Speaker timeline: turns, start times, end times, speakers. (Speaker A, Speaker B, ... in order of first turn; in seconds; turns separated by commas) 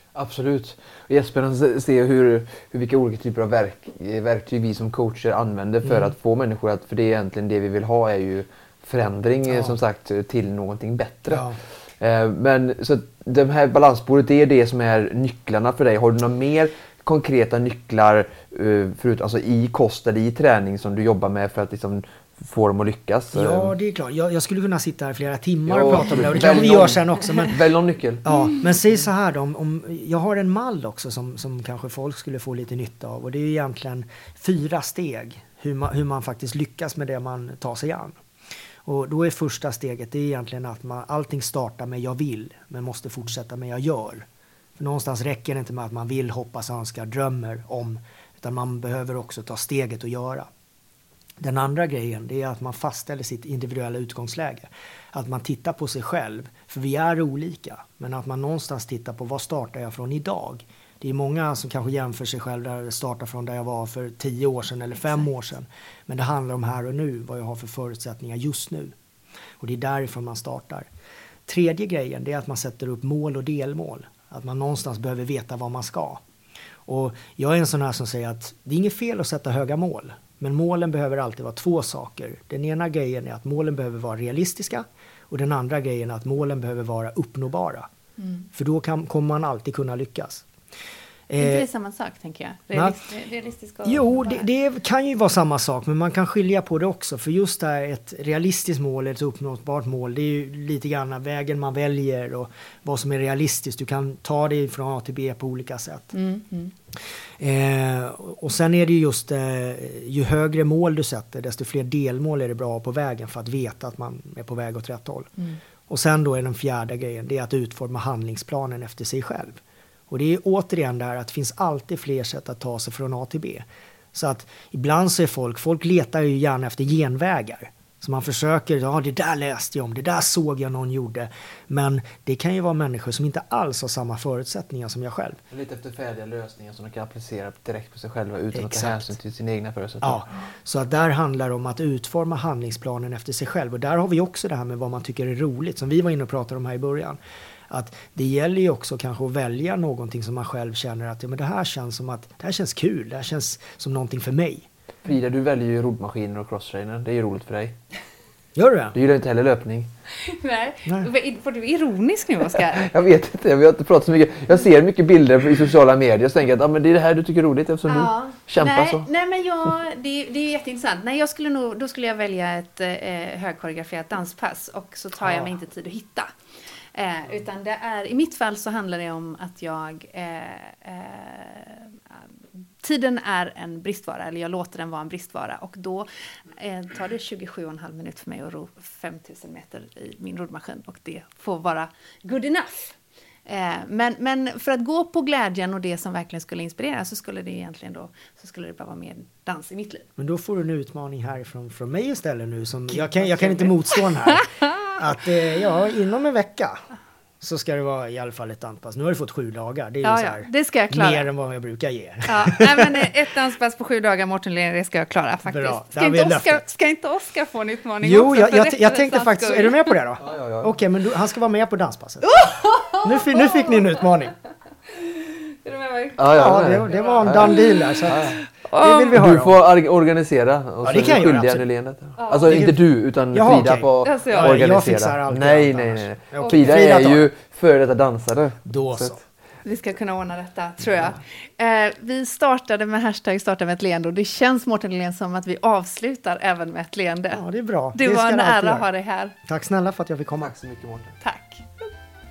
Speaker A: 0.1-11.5, Speaker B: 5.8-6.1, Speaker B: 9.5-9.8, Speaker B: 11.3-11.6, Speaker A: 12.0-23.7, Speaker B: 23.3-27.6, Speaker A: 25.7-28.2, Speaker B: 28.2-38.1, Speaker C: 28.2-28.6, Speaker B: 38.8-44.2, Speaker B: 44.8-50.5, Speaker B: 51.4-68.9, Speaker B: 69.6-70.9, Speaker B: 71.5-76.2, Speaker B: 76.8-87.9, Speaker C: 88.2-88.5, Speaker B: 88.5-90.5, Speaker B: 91.3-91.7, Speaker C: 91.4-94.5, Speaker B: 93.8-106.1, Speaker C: 106.1-106.7, Speaker B: 107.4-115.3, Speaker B: 115.9-135.4, Speaker A: 135.5-140.2, Speaker B: 138.5-139.1, Speaker B: 140.0-147.2, Speaker B: 147.7-154.7, Speaker A: 155.0-157.7, Speaker B: 158.6-158.9, Speaker A: 158.9-159.9, Speaker C: 160.2-162.9, Speaker A: 162.7-169.1, Speaker C: 167.9-176.3, Speaker C: 176.9-181.9, Speaker C: 182.8-200.1, Speaker B: 200.2-206.8, Speaker C: 203.0-203.7, Speaker B: 207.4-213.1, Speaker C: 210.0-211.3, Speaker C: 212.2-219.9, Speaker B: 215.4-216.6, Speaker B: 218.0-224.3, Speaker A: 220.2-220.7, Speaker C: 222.3-223.7, Speaker C: 225.3-226.2, Speaker A: 226.2-228.4, Speaker B: 226.3-229.6, Speaker C: 228.6-229.1, Speaker A: 229.1-239.2, Speaker B: 230.8-231.7, Speaker C: 232.2-232.5, Speaker B: 232.5-232.8, Speaker B: 233.3-237.3, Speaker C: 234.0-234.5, Speaker C: 236.4-236.7, Speaker B: 238.7-239.2, Speaker C: 239.6-247.4, Speaker B: 247.3-248.9, Speaker C: 247.9-249.3, Speaker B: 249.4-250.5, Speaker A: 250.4-251.1, Speaker C: 251.2-251.6